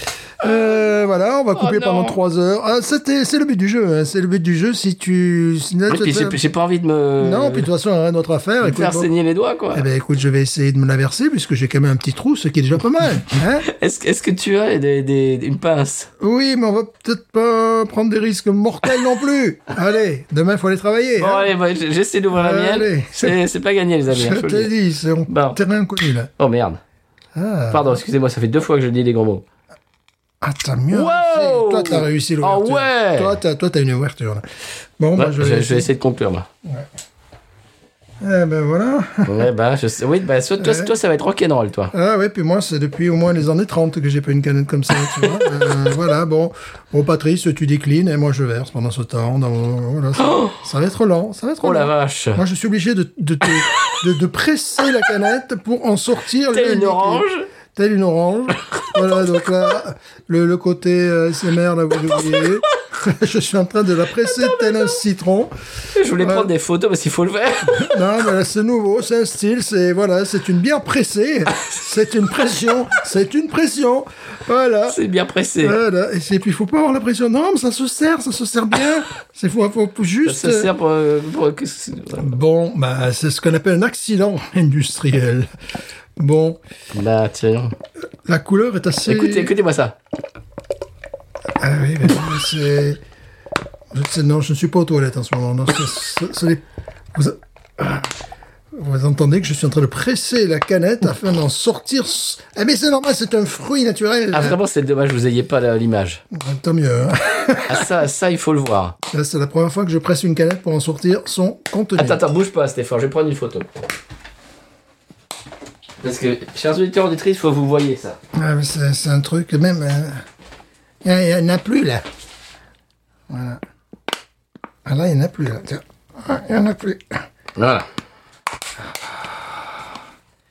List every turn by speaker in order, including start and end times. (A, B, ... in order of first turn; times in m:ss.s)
0:00.4-0:06.4 A
0:01.5-0:02.2 B
0:05.9-0:07.7 B
0:07.2-0:09.1 A
0:08.6-0:09.8 B
0:09.7-0:13.7 A
0:13.6-0:16.1 B
0:16.2-0:21.5 A
0:21.2-0:24.7 B
0:22.3-0:23.4 A
0:24.1-0:26.3 A
0:25.3-0:25.6 B
0:26.4-0:26.8 B
0:27.3-0:28.0 A
0:27.7-0:29.4 B
0:30.4-0:34.4 A
0:30.9-0:33.4 B
0:35.0-0:35.9 A
0:35.2-0:36.5 B
0:38.2-0:39.5 A
0:39.2-0:41.9 B
0:40.6-0:40.9 A
0:41.9-1:05.5 A
0:50.2-0:50.6 B
0:51.6-0:52.4 B
0:56.5-0:57.5 B
1:05.9-1:08.0 B
1:06.2-1:06.5 A
1:07.7-1:15.0 A
1:14.9-1:15.8 B
1:15.6-1:20.7 A
1:20.2-1:22.3 B
1:22.2-1:25.5 A
1:26.2-1:26.6 A
1:26.9-1:27.8 B
1:28.2-1:29.5 A
1:29.0-1:30.0 B
1:31.6-1:33.0 A
1:33.9-1:36.6 A
1:37.1-1:38.1 A
1:38.7-1:44.6 A
1:44.3-1:46.2 B
1:46.3-1:47.9 A
1:47.7-1:49.0 B
1:49.1-1:52.2 A
1:52.0-1:53.7 B
1:56.0-1:58.2 B
1:58.3-2:00.2 A
2:01.0-2:02.0 A
2:03.3-2:03.6 A
2:04.8-2:07.2 A
2:07.6-2:07.9 B